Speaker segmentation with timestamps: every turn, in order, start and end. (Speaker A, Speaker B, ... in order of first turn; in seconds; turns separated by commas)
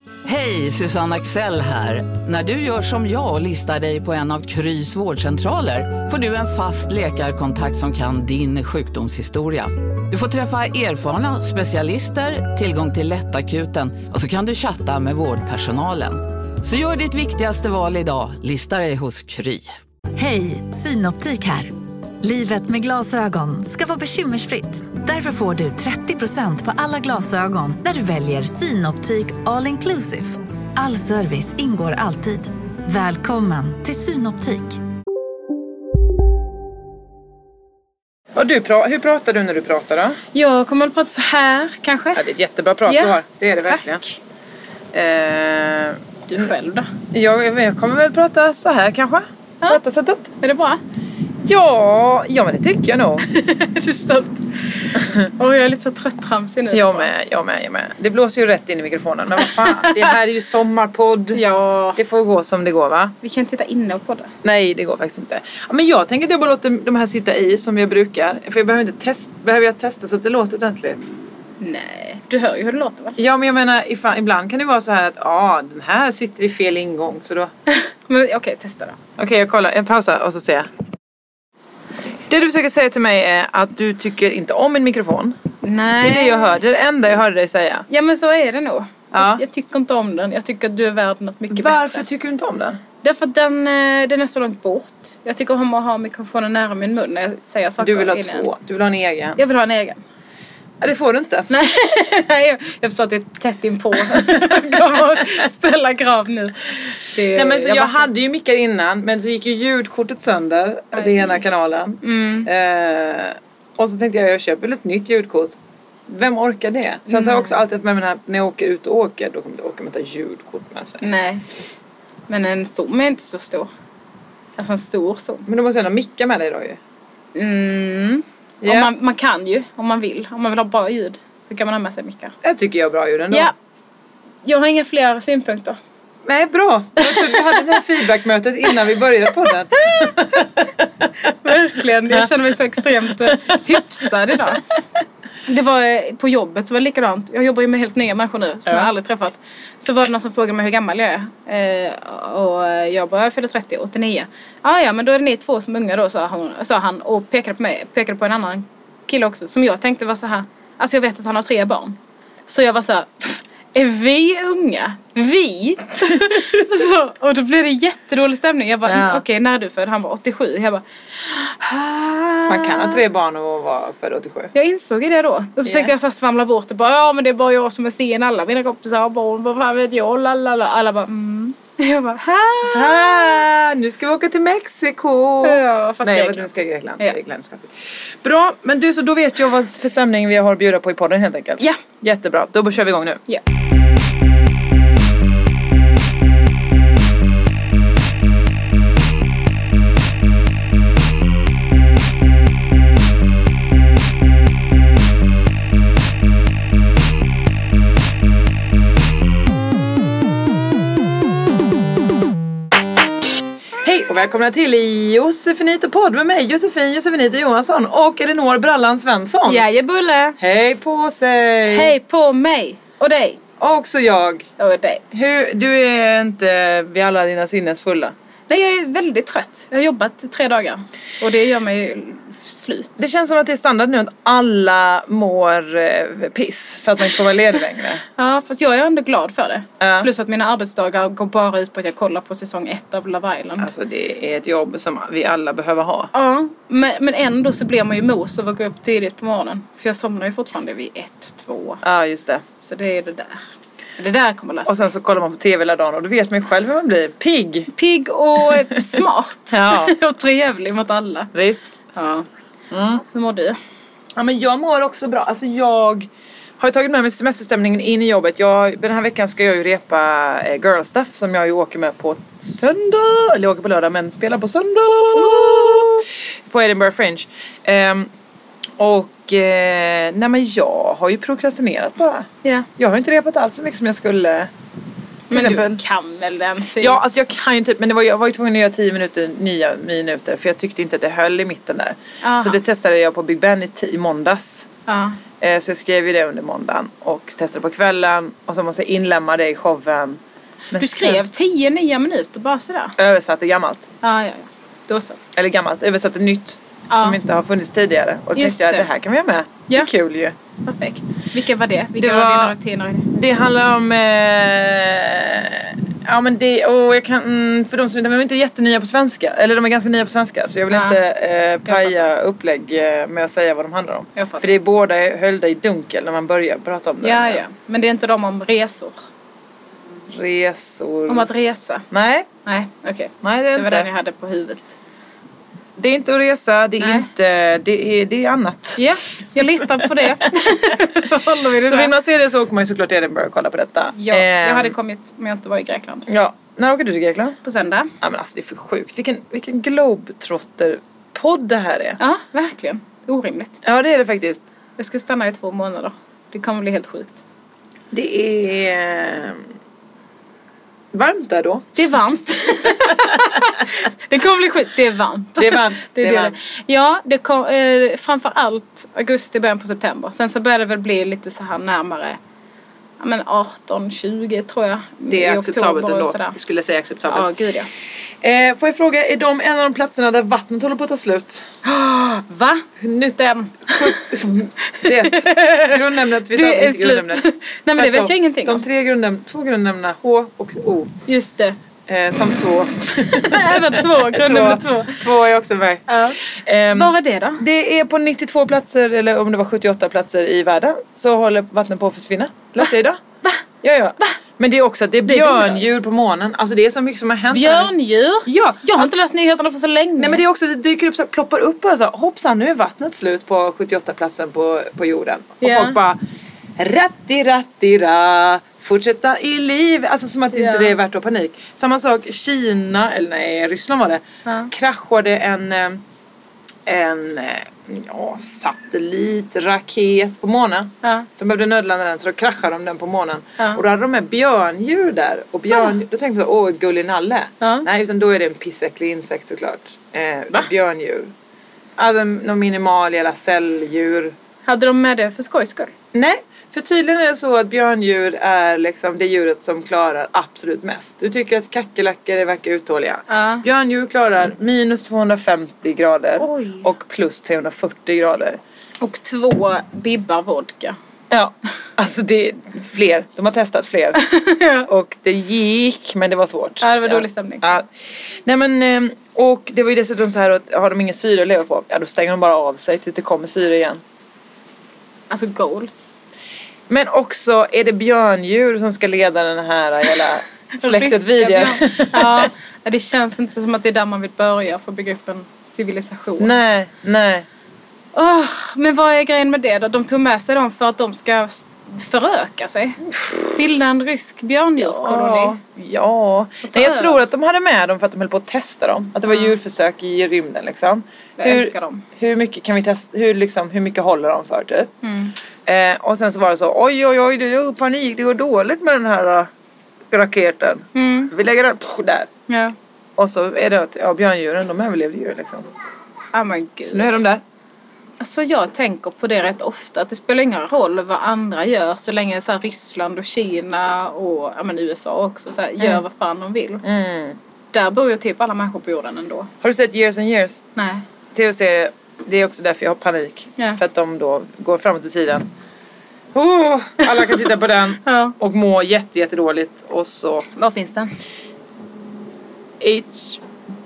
Speaker A: 0.2-19.7, Speaker B: 20.1-34.8, Speaker C: 38.3-40.2, Speaker D: 40.3-42.2, Speaker C: 42.1-44.0, Speaker D: 42.9-44.1, Speaker C: 44.9-46.5, Speaker D: 46.3-46.9, Speaker C: 47.1-50.3, Speaker D: 50.4-50.8, Speaker C: 51.4-53.2, Speaker D: 53.2-57.1, Speaker C: 56.7-61.4, Speaker D: 59.5-60.1, Speaker D: 61.3-62.0, Speaker C: 62.0-63.1, Speaker D: 63.2-64.3, Speaker C: 64.4-71.0, Speaker D: 71.6-73.2, Speaker C: 73.2-77.5, Speaker D: 77.7-79.0, Speaker C: 79.2-80.7, Speaker C: 82.3-85.4, Speaker D: 85.6-86.6, Speaker C: 86.0-87.9, Speaker D: 87.9-92.0, Speaker C: 89.1-89.4, Speaker C: 91.5-92.8, Speaker D: 93.0-98.5, Speaker C: 97.8-99.4, Speaker D: 99.4-100.0, Speaker C: 100.8-101.5, Speaker D: 101.5-108.1, Speaker C: 104.0-105.0, Speaker C: 107.3-121.1, Speaker D: 111.0-111.4, Speaker D: 112.0-112.5, Speaker D: 117.1-117.5, Speaker D: 121.0-121.4, Speaker D: 122.3-123.7, Speaker D: 124.6-125.5, Speaker C: 125.5-126.8, Speaker D: 127.3-132.3, Speaker C: 128.6-128.9, Speaker C: 132.4-133.5, Speaker D: 134.4-135.8, Speaker C: 136.2-140.5, Speaker D: 137.0-137.8, Speaker D: 139.9-140.4, Speaker C: 141.0-141.5, Speaker D: 141.4-144.6, Speaker C: 143.2-144.6, Speaker D: 145.5-173.0, Speaker C: 168.8-169.2, Speaker C: 172.5-174.5, Speaker D: 174.5-183.4, Speaker C: 175.6-175.9, Speaker C: 182.6-193.2, Speaker D: 185.4-186.5, Speaker C: 213.8-219.6, Speaker D: 219.4-220.4, Speaker C: 220.4-221.9, Speaker D: 221.7-223.4, Speaker C: 223.6-224.5, Speaker D: 224.6-225.0, Speaker C: 225.1-228.1, Speaker D: 228.5-232.9, Speaker C: 233.0-238.0, Speaker D: 238.2-243.7, Speaker C: 239.8-240.1, Speaker C: 243.6-246.1, Speaker D: 246.1-251.8, Speaker C: 251.8-252.5, Speaker D: 252.6-253.4, Speaker D: 254.0-254.8, Speaker C: 254.7-257.7, Speaker D: 257.7-261.3, Speaker C: 258.5-258.9, Speaker C: 259.5-259.9, Speaker C: 261.3-261.8, Speaker D: 261.9-262.2, Speaker C: 262.7-263.0, Speaker D: 263.1-263.6, Speaker C: 264.1-278.1, Speaker D: 275.1-276.0, Speaker C: 278.8-284.5, Speaker D: 285.3-287.0, Speaker C: 285.3-285.8, Speaker C: 286.8-294.7, Speaker D: 292.2-292.6, Speaker D: 294.9-295.2, Speaker C: 295.4-300.2, Speaker C: 300.7-301.2, Speaker D: 300.8-302.9, Speaker C: 303.0-303.9, Speaker D: 304.0-305.2, Speaker C: 305.3-310.4, Speaker D: 306.9-307.2, Speaker D: 308.4-308.9, Speaker D: 310.6-313.1, Speaker C: 312.0-312.6, Speaker C: 313.1-327.4, Speaker D: 320.7-321.0, Speaker D: 321.6-322.1, Speaker D: 324.2-324.4, Speaker D: 327.0-328.9, Speaker C: 330.1-331.3, Speaker D: 331.1-331.9, Speaker C: 331.9-332.3, Speaker D: 332.4-334.8, Speaker C: 333.2-333.9, Speaker C: 335.8-340.7, Speaker D: 336.8-337.1, Speaker D: 338.8-341.9, Speaker C: 341.6-344.7, Speaker D: 344.0-346.1, Speaker C: 346.1-347.4, Speaker D: 347.4-347.9, Speaker C: 348.0-352.0, Speaker D: 352.0-353.6, Speaker C: 353.6-354.4, Speaker D: 354.8-357.2, Speaker C: 357.9-359.4, Speaker C: 360.9-361.8, Speaker D: 361.8-372.2, Speaker C: 362.7-363.0, Speaker C: 365.4-366.4, Speaker D: 373.0-376.4, Speaker C: 375.1-377.3, Speaker D: 377.1-377.7, Speaker C: 378.2-381.6, Speaker D: 381.6-384.0, Speaker C: 382.8-390.9, Speaker D: 384.7-388.6, Speaker D: 391.1-391.6, Speaker C: 391.9-403.0, Speaker D: 393.1-395.1, Speaker D: 395.9-396.2, Speaker D: 396.7-397.4, Speaker C: 403.6-407.7, Speaker D: 405.1-405.6, Speaker D: 407.3-410.2, Speaker C: 408.2-408.9, Speaker C: 410.0-416.0, Speaker D: 415.4-415.8, Speaker C: 416.6-425.8, Speaker D: 420.3-420.7, Speaker D: 424.2-424.5, Speaker C: 426.6-441.1, Speaker D: 430.8-431.1, Speaker C: 441.8-444.1, Speaker D: 444.4-445.7, Speaker C: 445.9-458.4, Speaker D: 453.1-453.4, Speaker D: 456.2-456.7, Speaker D: 458.8-460.8, Speaker C: 461.1-464.0, Speaker D: 464.0-464.7, Speaker C: 464.6-473.8, Speaker D: 466.6-467.6, Speaker D: 475.1-475.9, Speaker C: 476.7-482.3, Speaker D: 480.6-486.3, Speaker C: 486.2-487.3, Speaker D: 487.9-492.8, Speaker C: 492.9-493.4, Speaker D: 493.3-495.4, Speaker C: 494.6-504.7, Speaker D: 496.4-497.0, Speaker D: 499.1-499.3, Speaker D: 501.2-501.8, Speaker D: 504.8-505.1, Speaker C: 505.4-509.3, Speaker C: 509.9-512.1, Speaker D: 510.7-511.1, Speaker D: 512.3-512.5, Speaker C: 513.0-515.5, Speaker D: 516.1-516.9, Speaker C: 516.6-517.2, Speaker D: 518.0-526.6, Speaker C: 526.6-527.2, Speaker D: 527.5-529.3, Speaker C: 529.4-530.4, Speaker D: 530.5-530.8, Speaker C: 531.1-535.3, Speaker C: 536.1-540.3, Speaker D: 537.8-538.1, Speaker D: 540.4-540.9, Speaker C: 542.6-543.2